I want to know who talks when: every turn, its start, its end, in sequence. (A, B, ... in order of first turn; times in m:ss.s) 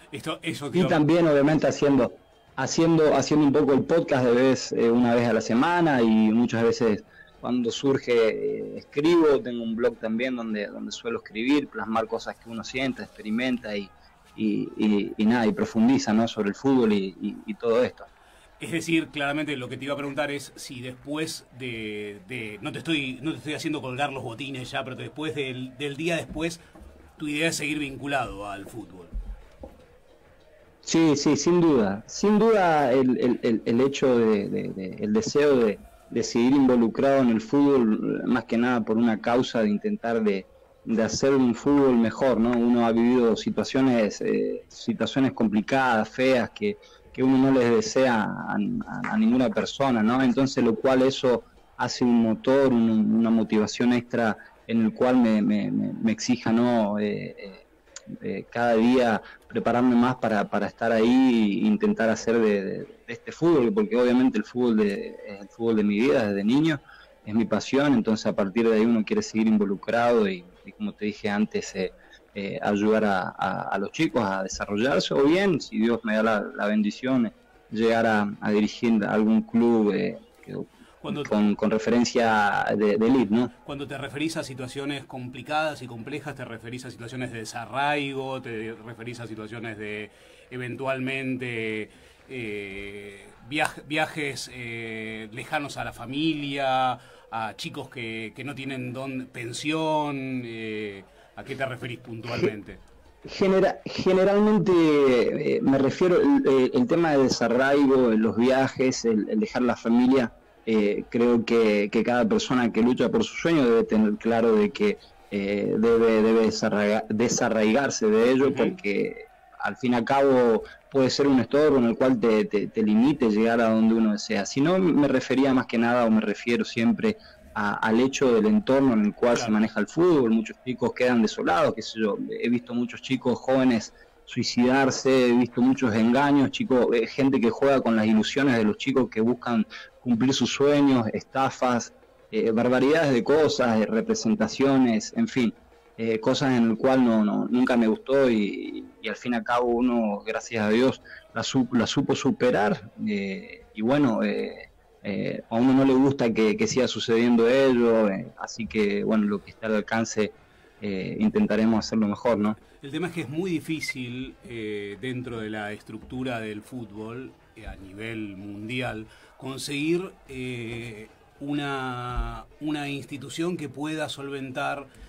0:00.1-0:01.0 A
0:00.7-0:18.1 B
0:18.6-0:26.6 A
0:27.2-0:29.1 A
0:30.8-0:57.6 B
0:58.2-1:23.5 B
1:21.0-1:21.3 A
1:23.6-1:42.8 A
1:43.2-2:42.6 B
1:58.4-1:58.8 A
2:09.3-2:09.6 A
2:42.8-2:54.9 A